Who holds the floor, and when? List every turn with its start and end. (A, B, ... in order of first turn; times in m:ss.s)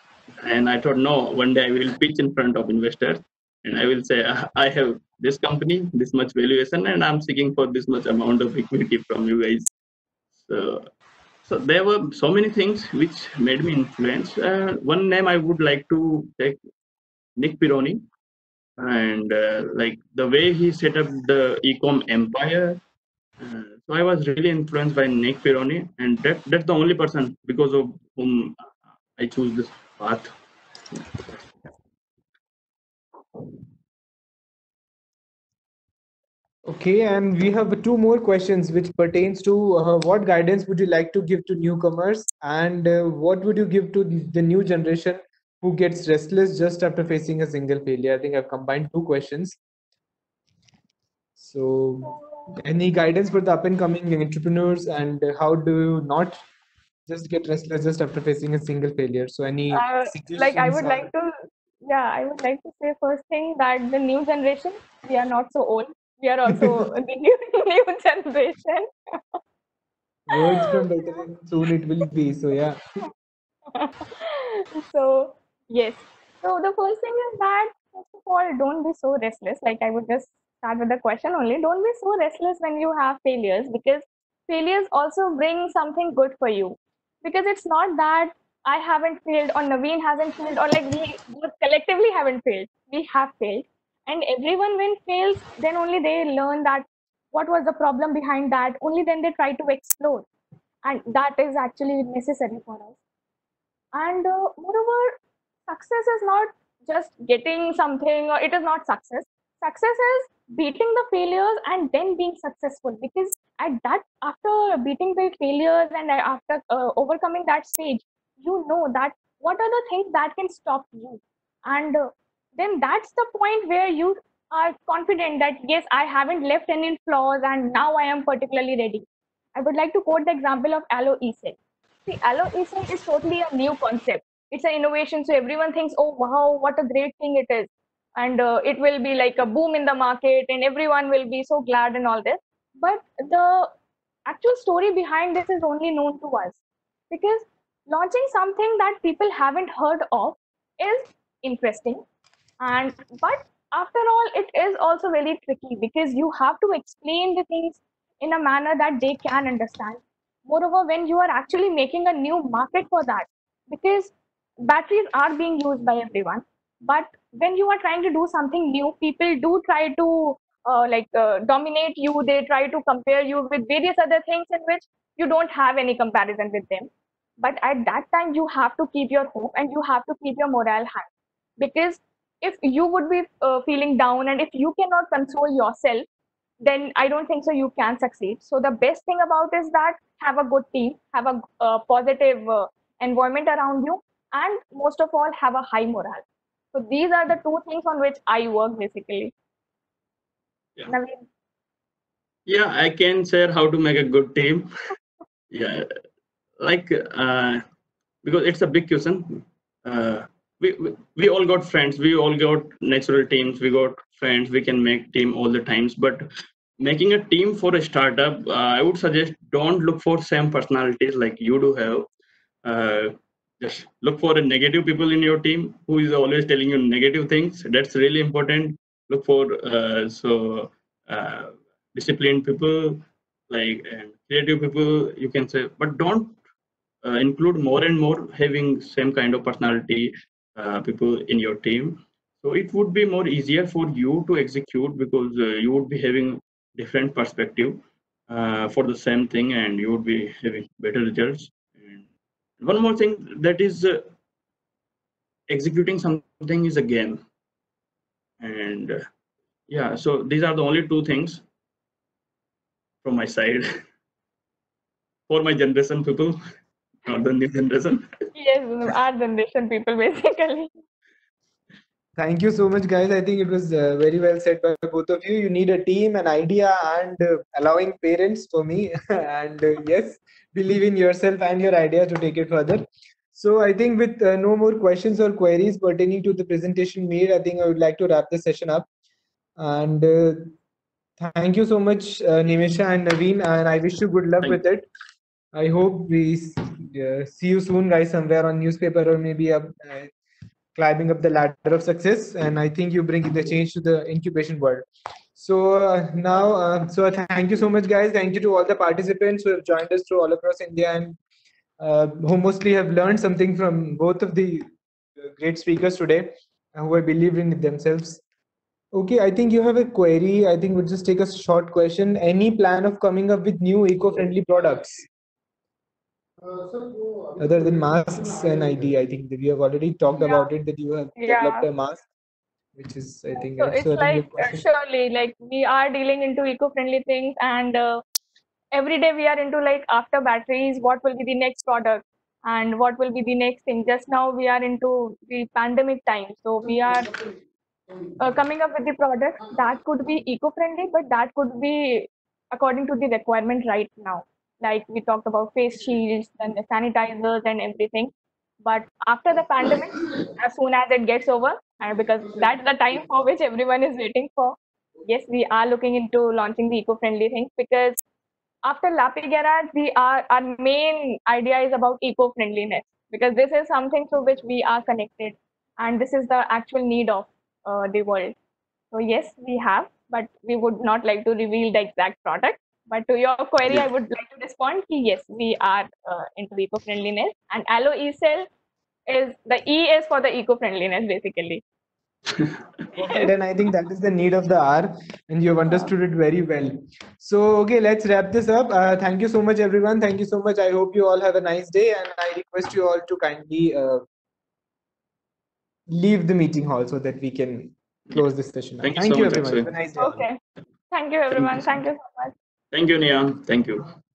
0:00.4-0:09.7 A
0:10.4-0:10.9 A
0:11.4-0:16.6 A
0:17.4-0:18.0 A
0:18.8-0:22.8 A
0:23.4-0:28.6 A
0:29.2-0:30.3 A
0:30.9-0:31.4 A
0:36.7-0:49.6 B
0:51.4-0:56.4 B
0:52.0-0:52.5 C
0:57.1-1:01.1 B
0:59.7-1:01.3 C
1:01.8-1:08.9 C
1:06.5-1:06.8 B
1:10.3-1:12.8 B
1:10.4-1:11.2 C
1:13.7-1:40.3 C
1:40.8-1:43.0 C
1:43.9-2:23.7 C
2:24.3-2:32.0 C
2:32.6-2:44.1 C
2:44.6-3:06.0 C
3:06.6-3:19.3 C
3:20.9-3:21.2 C
3:22.5-3:24.7 A
3:25.5-3:25.9 A
3:26.6-3:27.6 A
3:28.2-3:36.3 A
3:36.8-3:42.1 A
3:42.6-3:56.4 A
3:57.0-4:12.0 A
4:12.6-4:14.1 A
4:15.5-4:17.2 A
4:18.4-4:19.0 A
4:19.7-4:21.4 A
4:23.0-4:23.7 A
4:25.3-4:26.4 A
4:27.0-4:28.1 A
4:28.4-4:30.7 C
4:32.2-4:48.9 B
4:49.6-4:50.5 B
4:51.2-4:54.9 B
4:55.5-5:00.1 B
5:00.8-5:11.2 B
5:11.8-5:18.2 B
5:18.9-5:25.1 B
5:27.4-5:32.0 B
5:30.2-5:30.5 C
5:31.2-5:31.6 C
5:32.7-5:34.7 B
5:33.4-5:38.0 C
5:38.7-5:47.2 C
5:48.2-6:08.0 C
6:08.6-6:18.4 C
6:18.9-6:28.5 C
6:29.1-6:31.6 C
6:33.0-6:44.0 B
6:45.9-6:50.2 B
6:48.8-6:49.7 A
6:50.0-6:50.4 C
6:50.9-6:52.3 C
6:51.3-6:51.8 A
6:52.7-6:53.9 A